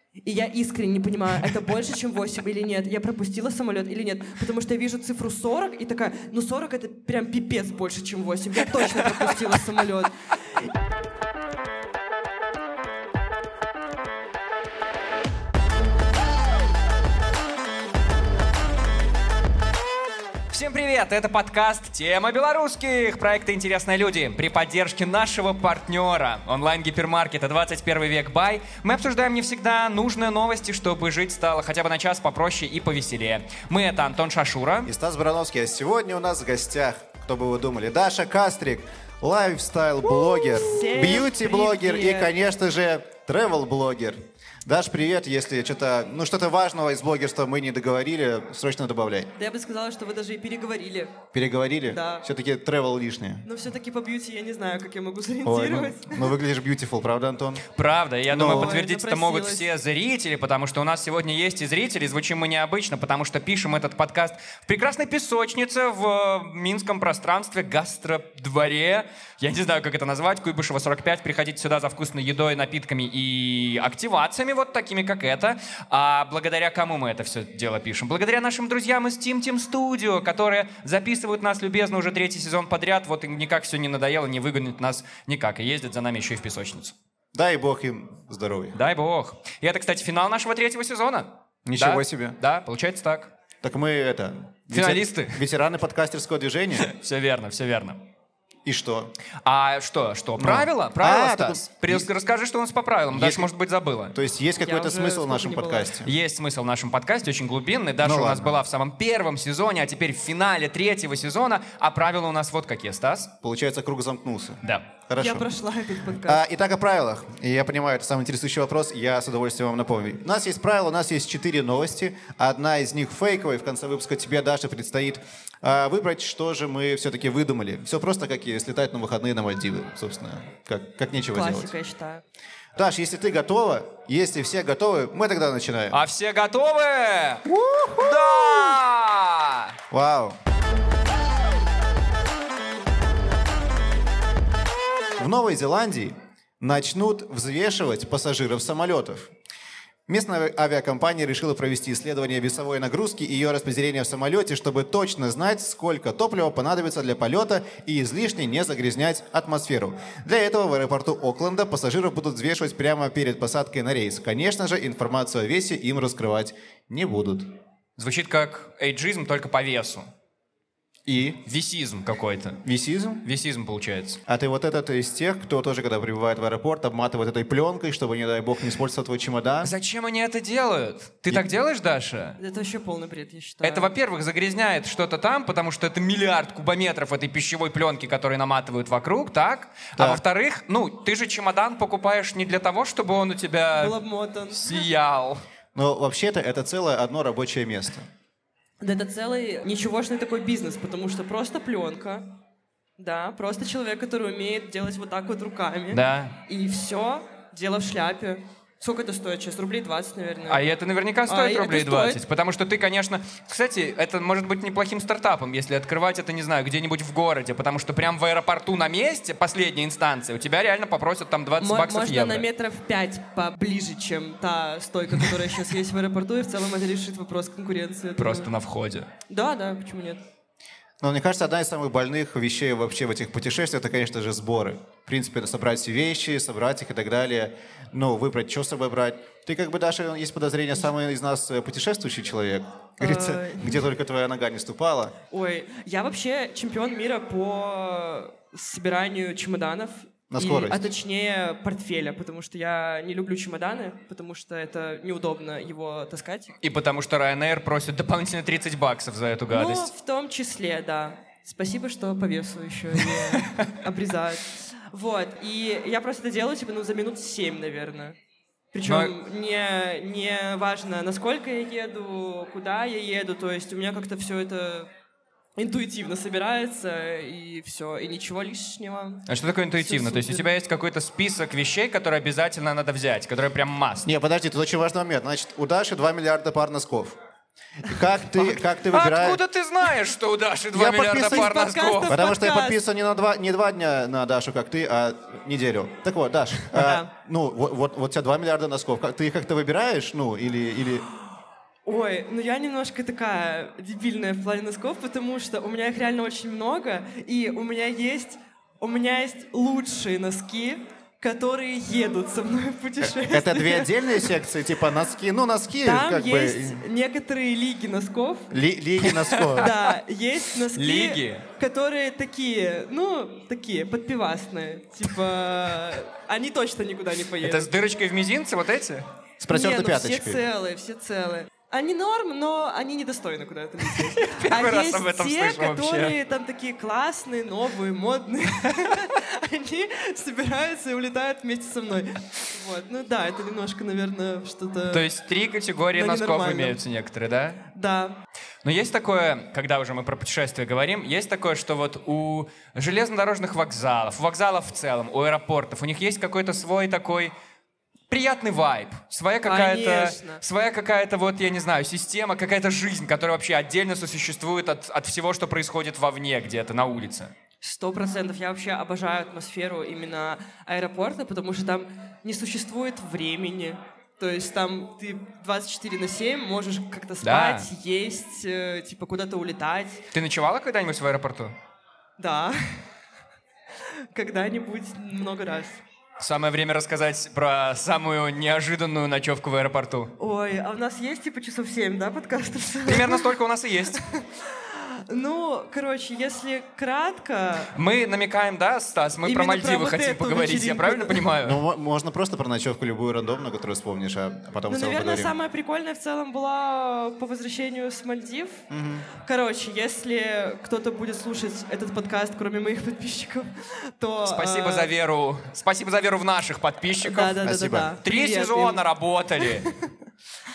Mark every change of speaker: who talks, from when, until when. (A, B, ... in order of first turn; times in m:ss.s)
0:00.2-0:10.7 A
0:20.5-0:34.9 B
0:34.9-0:49.3 C
0:40.2-0:42.3 A
0:49.4-0:51.2 A
0:51.3-0:53.4 C
0:51.9-0:52.2 A
0:53.4-0:56.3 A
0:55.4-0:57.7 C
0:57.7-1:26.9 B
0:58.3-0:58.8 C
0:58.4-0:59.7 A
1:27.3-1:28.8 C
1:28.8-1:33.3 B
1:31.7-1:32.4 C
1:33.6-1:36.9 C
1:34.7-1:35.4 B
1:36.8-1:38.0 B
1:38.6-1:39.1 C
1:39.4-1:44.2 B
1:40.4-1:42.1 C
1:43.1-1:43.5 C
1:44.1-1:46.1 C
1:44.6-1:45.9 A
1:46.0-1:53.3 B
1:48.0-1:48.6 C
1:53.4-1:55.5 C
1:55.2-1:56.4 A
1:56.2-2:11.7 C
2:11.2-2:12.2 A
2:12.8-2:16.0 C
2:15.9-2:19.8 B
2:17.5-2:18.8 C
2:19.9-2:20.4 C
2:25.2-2:29.3 C
2:30.1-2:47.5 C
2:48.0-2:50.1 B
2:51.1-2:51.4 C
2:51.4-2:52.6 B
2:52.6-2:53.2 C
2:53.2-2:54.2 B
2:54.3-2:59.7 C
2:59.6-3:02.4 B
3:02.4-3:03.9 A
3:03.6-3:14.0 B
3:13.8-3:14.9 A
3:14.5-3:15.4 B
3:15.8-3:18.1 C
3:18.8-3:22.3 A
3:23.0-3:30.6 A
3:25.9-3:26.4 B
3:30.5-3:42.4 B
3:31.3-3:32.2 A
3:41.6-3:48.5 A
3:48.2-3:49.1 B
3:49.3-3:50.2 A
3:51.0-4:05.2 C
4:03.0-4:03.8 A
4:05.3-4:16.5 A
4:10.3-4:10.9 C
4:16.6-4:19.9 B
4:19.5-4:28.2 A
4:23.0-4:23.6 B
4:28.7-4:34.9 A
4:28.9-4:29.1 B
4:35.6-4:40.5 A
4:39.3-4:44.1 B
4:44.0-4:47.2 C
4:47.8-4:49.4 C
4:48.4-4:52.2 B
4:50.7-4:51.5 C
4:51.2-4:52.8 A
4:52.1-5:01.1 C
4:56.7-4:57.1 A
5:01.9-5:14.3 A
5:13.2-5:16.8 C
5:15.8-5:18.5 A
5:18.5-5:19.7 C
5:19.2-5:19.7 B
5:19.6-5:27.7 A
5:20.7-5:21.4 B
5:27.4-5:29.1 B
5:29.4-5:30.4 C
5:29.5-5:45.1 A
5:33.9-5:36.2 B
5:44.9-5:47.6 B
5:45.9-5:46.8 A
5:47.8-5:48.2 A
5:48.6-5:57.3 B
5:58.1-6:07.3 B
5:59.4-6:00.4 A
6:07.6-6:20.1 A
6:17.2-6:17.7 B
6:20.1-6:21.5 B
6:22.2-6:22.6 A
6:24.1-6:25.8 A
6:26.2-6:30.1 B
6:30.2-6:33.3 A
6:32.8-6:34.0 B
6:34.0-6:37.7 A
6:37.7-6:41.6 B
6:39.2-6:41.3 A
6:41.4-6:45.4 C
6:44.7-6:54.9 A
6:48.7-6:49.1 C
6:54.2-6:59.7 B
6:57.0-6:58.9 A
6:57.4-6:58.0 C
6:59.4-6:59.9 A